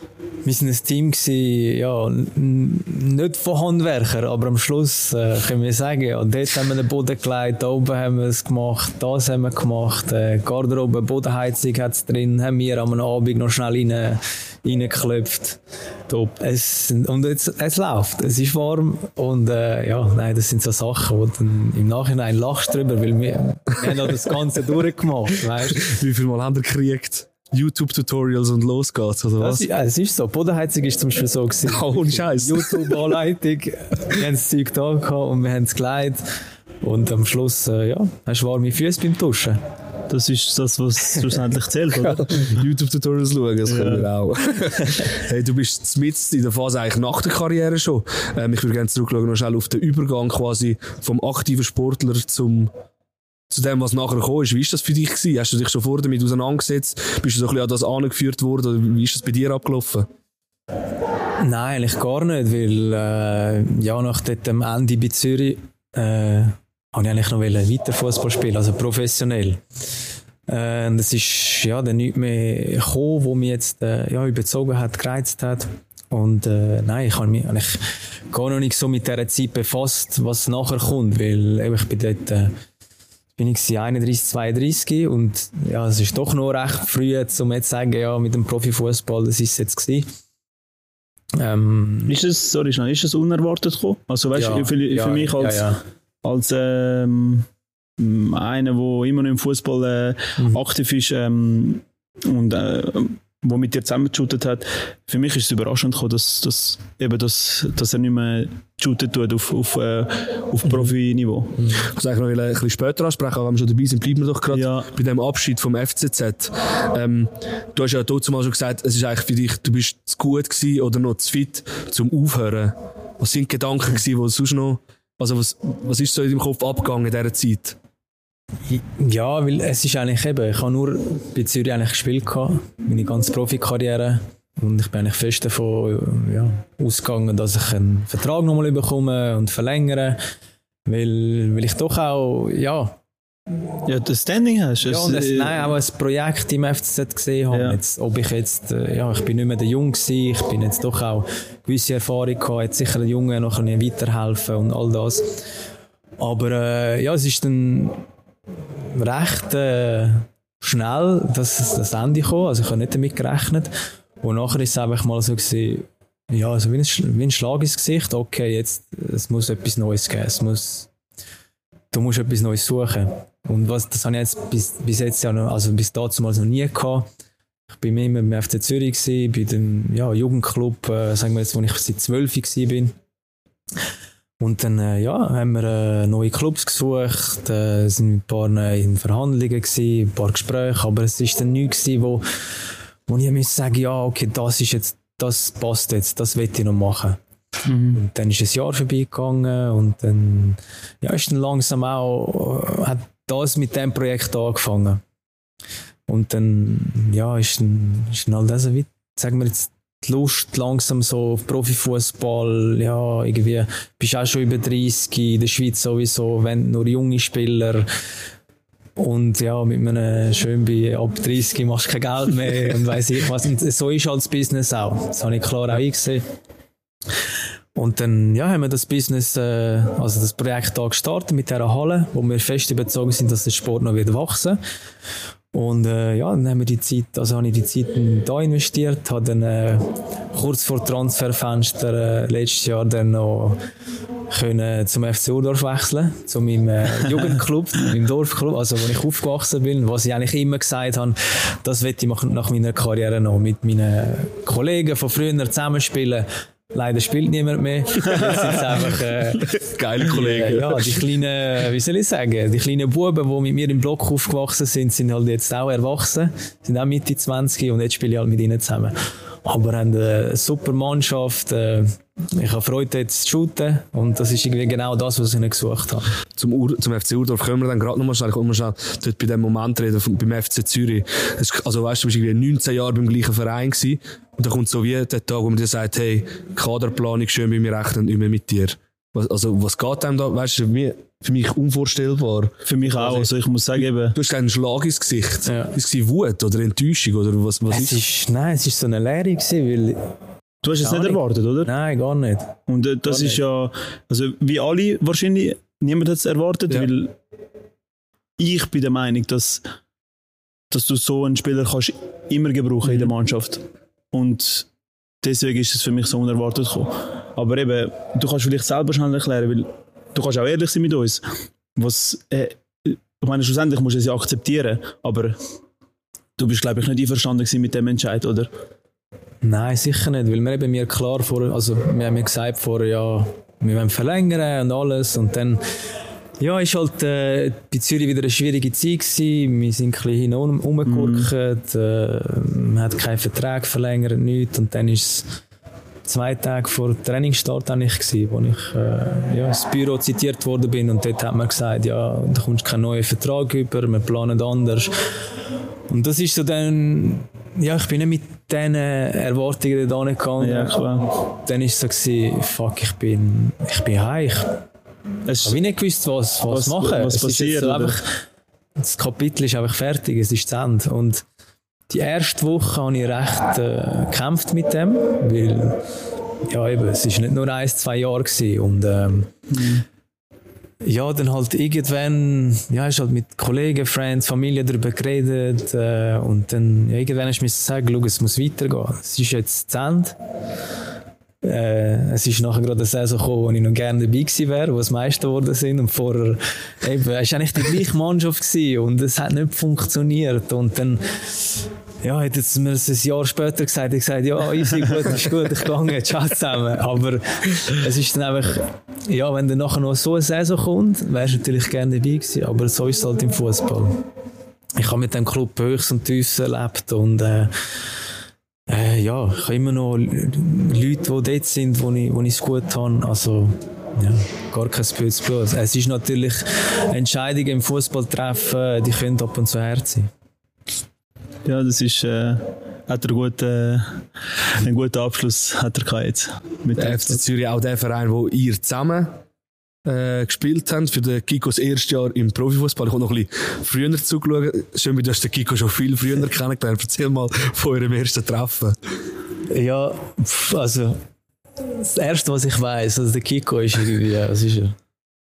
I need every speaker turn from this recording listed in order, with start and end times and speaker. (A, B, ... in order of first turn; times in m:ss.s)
0:00.4-0:25.9 A
0:25.8-0:29.6 B
0:29.4-0:36.3 A
0:31.7-0:33.0 B
0:36.8-0:39.6 A
0:40.1-0:42.5 C
0:42.0-0:52.7 B
0:43.7-0:44.1 C
0:53.5-1:00.1 B
1:01.4-1:09.6 A
1:10.5-1:22.6 A
1:23.4-1:30.1 A
1:31.4-1:32.2 A
1:32.1-1:35.7 C
1:34.4-1:35.8 A
1:36.2-1:51.6 C
1:51.6-1:51.9 A
1:51.8-2:07.8 B
1:54.5-1:54.9 C
2:08.7-2:20.2 A
2:20.9-2:23.0 A
2:23.8-2:25.7 C
2:24.8-2:35.4 A
2:27.5-2:27.8 C
2:36.2-2:38.0 A
2:38.9-2:50.9 A
2:51.9-2:57.1 A
2:57.7-3:03.0 A
3:04.4-3:12.5 A
3:13.1-3:17.2 A
3:17.6-3:18.0 C
3:17.9-3:25.0 A
3:26.1-3:37.9 A
3:39.0-3:46.2 A
3:47.8-3:54.6 A
3:55.5-4:03.6 A
4:04.3-4:36.1 A
4:19.6-4:21.0 B
4:36.4-4:53.3 B
4:52.6-4:54.2 C
4:54.1-4:58.0 B
4:55.5-4:55.7 A
4:57.7-5:00.1 A
5:00.6-5:01.7 C
5:00.8-5:02.6 A
5:02.7-5:07.2 C
5:03.1-5:03.4 A
5:08.4-5:09.6 C
5:10.7-5:14.7 C
5:15.2-5:25.4 C
5:26.4-5:28.5 C
5:29.4-5:35.6 A
5:36.4-5:45.3 A
5:40.9-5:41.3 C
5:46.0-5:54.9 A
5:55.9-6:04.6 A
6:00.4-6:01.1 C
6:05.3-6:05.6 C
6:05.4-6:08.0 A
6:06.5-6:08.0 C
6:08.8-6:11.2 A
6:11.9-6:15.8 A
6:16.4-6:19.3 A
6:19.5-6:19.8 C
6:20.8-6:30.2 A
6:31.4-6:54.0 A
6:54.8-6:57.5 A
6:58.7-7:10.1 A
7:11.4-7:17.2 C
7:16.8-7:19.2 B
7:19.8-7:28.8 B
7:29.5-7:31.0 A
7:31.6-7:34.8 A